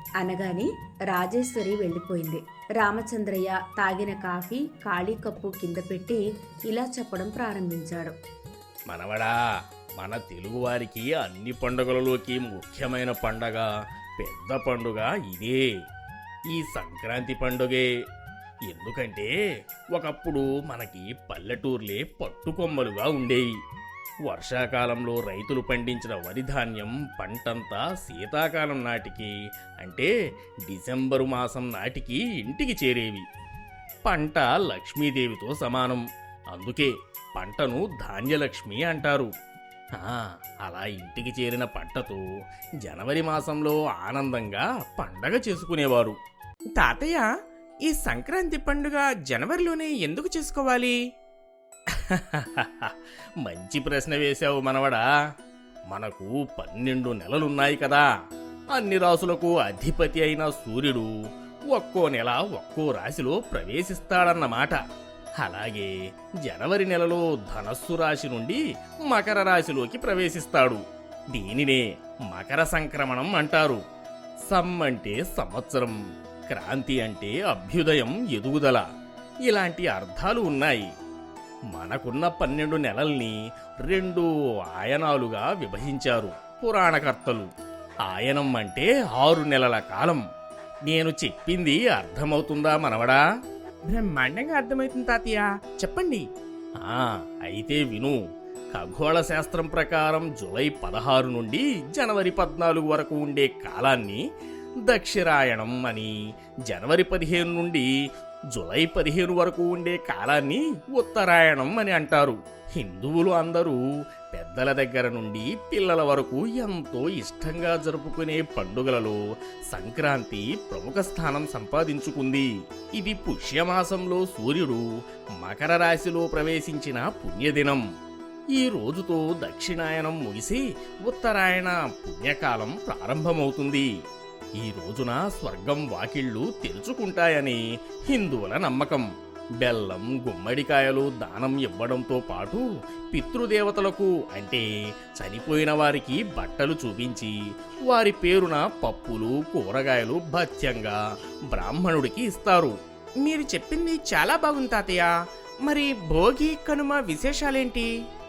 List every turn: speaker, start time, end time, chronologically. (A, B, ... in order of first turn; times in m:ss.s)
0:00.2-0:08.2 A
0:08.9-0:09.3 B
0:10.0-0:13.7 B
0:14.2-0:15.6 B
0:16.5-0:17.8 B
0:18.7-0:19.3 B
0:20.0-0:23.5 B
0:24.3-0:29.3 B
0:29.8-0:30.1 B
0:30.7-0:33.2 B
0:34.1-0:39.3 B
0:40.0-0:42.2 B
0:42.8-0:46.2 B
0:46.8-0:47.3 C
0:47.9-0:51.0 C
0:51.9-0:55.0 B
0:55.9-0:58.1 B
0:58.7-1:01.1 B
1:01.7-1:04.8 B
1:05.4-1:05.9 B
1:06.4-1:10.8 B
1:11.3-1:13.8 B
1:14.5-1:16.0 B
1:16.5-1:18.8 B
1:19.5-1:20.8 B
1:21.7-1:27.5 B
1:28.1-1:30.2 B
1:30.9-1:33.2 B
1:33.9-1:36.2 C
1:36.8-1:38.2 B
1:38.7-1:44.2 B
1:44.8-1:46.1 B
1:46.7-1:47.8 B
1:48.5-1:53.8 B
1:54.3-1:59.2 B
1:59.7-2:04.8 B
2:05.4-2:07.8 B
2:08.6-2:13.9 B
2:14.6-2:17.6 B
2:18.1-2:19.0 B
2:19.6-2:24.6 B
2:25.2-2:27.3 B
2:27.9-2:31.0 B
2:31.5-2:32.7 B
2:33.2-2:35.1 C
2:35.7-2:37.9 C